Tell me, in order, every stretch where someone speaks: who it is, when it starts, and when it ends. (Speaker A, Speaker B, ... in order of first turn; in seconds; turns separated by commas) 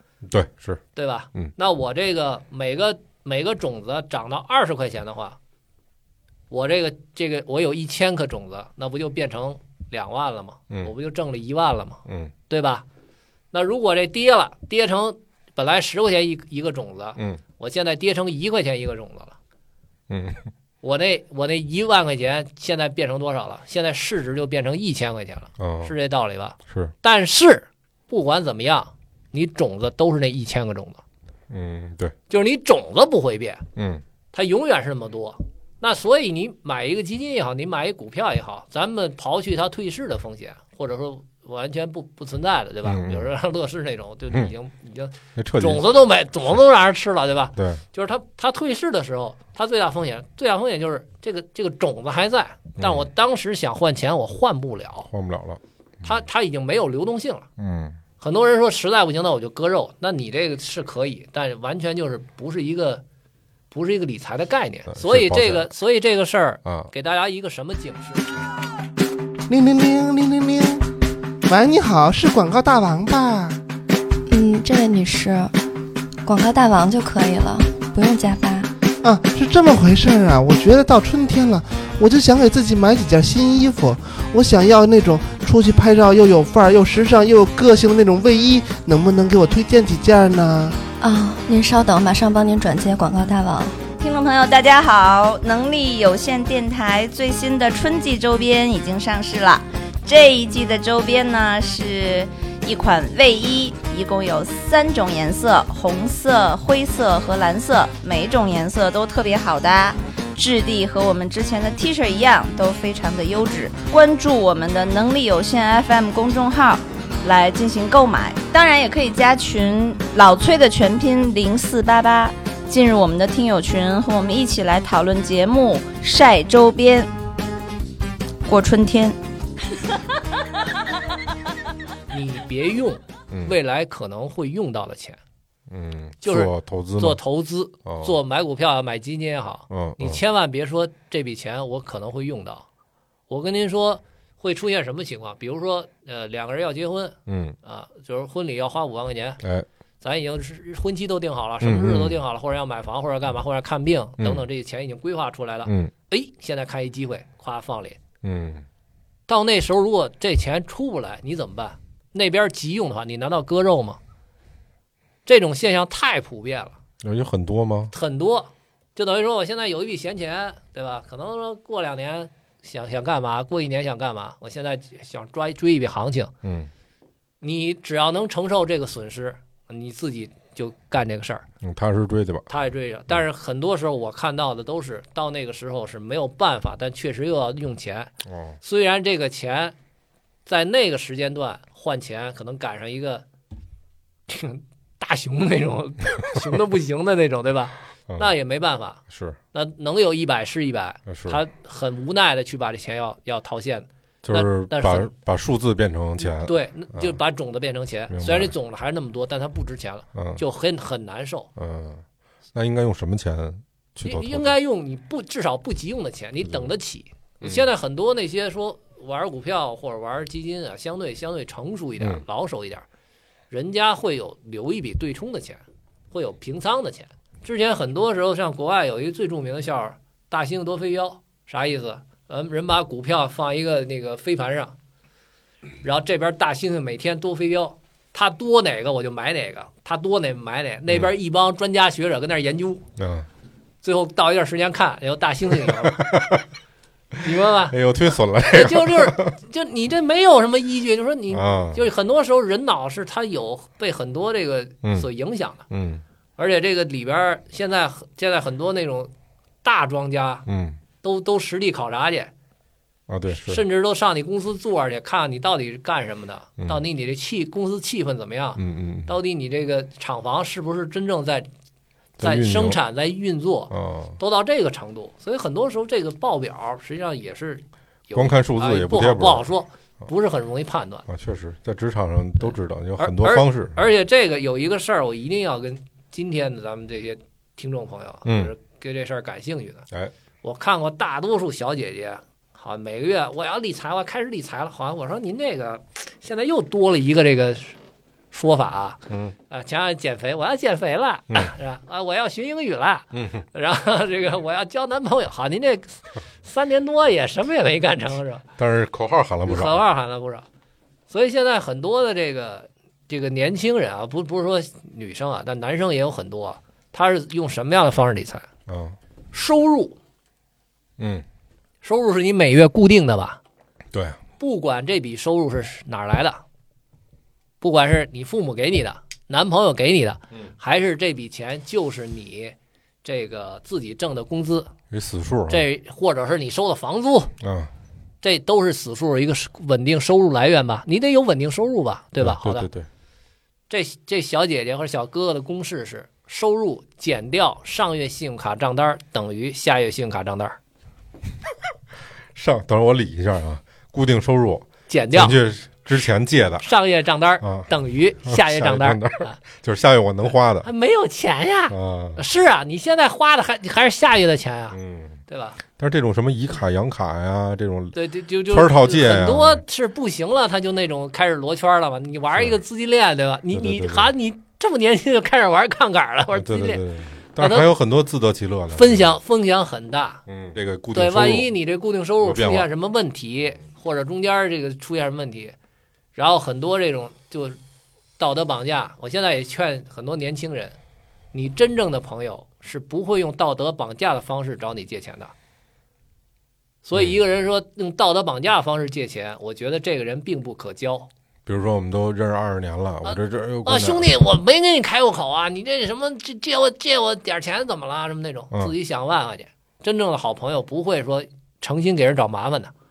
Speaker A: 0.2-0.8, Speaker B: 0.9-5.4, Speaker B: 6.5-12.9, Speaker A: 12.1-12.3, Speaker B: 13.5-19.4, Speaker A: 20.1-20.5, Speaker B: 20.8-31.0, Speaker A: 25.6-25.9, Speaker A: 26.7-26.9, Speaker A: 31.5-32.1, Speaker B: 32.3-33.6, Speaker A: 33.8-34.0, Speaker B: 34.3-55.1, Speaker A: 42.8-43.3, Speaker A: 45.4-46.0, Speaker A: 47.6-47.8, Speaker A: 52.8-53.1, Speaker A: 55.1-56.2, Speaker B: 56.0-57.5, Speaker A: 57.6-58.0, Speaker B: 58.2-63.0, Speaker B: 63.7-68.3, Speaker A: 64.9-65.7, Speaker A: 66.7-66.9, Speaker C: 69.5-70.9, Speaker C: 71.5-73.6, Speaker D: 74.3-75.5, Speaker D: 76.2-78.7, Speaker C: 79.0-90.8, Speaker D: 91.0-93.8, Speaker E: 94.0-127.1, Speaker E: 128.5-129.2, Speaker B: 132.1-135.2, Speaker A: 133.3-133.6, Speaker A: 135.7-137.2, Speaker B: 136.2-142.7, Speaker A: 137.8-138.2, Speaker A: 139.7-140.2, Speaker B: 143.3-149.4, Speaker A: 147.3-147.6, Speaker A: 149.4-149.7, Speaker B: 150.0-158.0, Speaker A: 151.6-152.2, Speaker A: 154.2-154.4, Speaker A: 155.7-155.9, Speaker A: 158.2-158.7, Speaker B: 159.3-164.0, Speaker B: 165.3-166.8, Speaker A: 167.0-167.9, Speaker B: 167.9-176.3, Speaker A: 176.4-176.7, Speaker B: 177.4-181.5, Speaker A: 181.6-182.5, Speaker B: 182.5-188.1, Speaker A: 188.2-188.6, Speaker B: 188.6-189.8, Speaker B: 190.5-193.3, Speaker B: 194.3-199.0, Speaker A: 199.1-199.4, Speaker B: 199.5-205.1, Speaker A: 201.1-201.4, Speaker A: 204.2-207.2, Speaker B: 206.2-211.5, Speaker A: 208.1-208.5, Speaker A: 210.1-210.4, Speaker A: 211.6-212.0, Speaker A: 212.5-214.6, Speaker B: 214.0-222.8, Speaker A: 216.4-216.7, Speaker A: 217.4-217.7, Speaker B: 223.5-234.8, Speaker B: 235.8-242.8, Speaker A: 243.0-243.3, Speaker B: 243.8-246.2, Speaker A: 245.6-246.4, Speaker B: 247.2-247.8, Speaker A: 247.7-249.3, Speaker B: 248.4-255.6, Speaker A: 251.3-251.9, Speaker A: 254.8-255.1, Speaker A: 255.7-256.0, Speaker B: 256.4-259.1, Speaker B: 259.6-260.5, Speaker A: 260.5-260.8, Speaker B: 261.0-262.3, Speaker A: 263.1-263.6, Speaker B: 263.3-271.5, Speaker A: 268.6-269.1, Speaker A: 272.2-272.8, Speaker B: 272.2-281.1, Speaker A: 273.7-274.2, Speaker A: 278.1-279.5, Speaker A: 281.1-283.9, Speaker B: 283.0-289.9, Speaker A: 288.2-288.5, Speaker B: 290.4-297.8, Speaker B: 298.3-308.4, Speaker A: 299.1-299.4, Speaker A: 303.1-303.4, Speaker A: 308.6-309.8, Speaker B: 309.5-310.5, Speaker B: 311.1-318.5, Speaker A: 318.7-319.0, Speaker B: 319.3-320.0, Speaker A: 321.0-321.2, Speaker B: 321.8-323.4, Speaker A: 323.9-324.2, Speaker B: 324.4-326.4, Speaker B: 327.6-334.7, Speaker A: 334.9-335.7, Speaker B: 335.5-337.3, Speaker A: 337.4-337.7, Speaker B: 338.2-342.7, Speaker A: 342.2-342.9, Speaker B: 343.7-350.6, Speaker A: 352.3-356.7, Speaker B: 354.9-355.4, Speaker B: 356.6-359.4, Speaker A: 357.4-357.7, Speaker A: 358.2-360.7, Speaker B: 360.6-365.6, Speaker A: 361.7-362.2, Speaker A: 364.7-365.2, Speaker A: 365.8-369.6, Speaker B: 367.9-376.8, Speaker A: 372.3-372.6, Speaker A: 373.5-374.1, Speaker A: 376.3-379.1, Speaker B: 377.4-377.7, Speaker B: 378.7-380.2, Speaker A: 380.3-381.5, Speaker B: 380.9-385.6, Speaker A: 382.2-382.7, Speaker B: 386.1-387.6, Speaker B: 388.2-390.8, Speaker B: 391.3-395.3, Speaker B: 396.9-401.1, Speaker A: 401.5-404.2, Speaker B: 403.0-412.7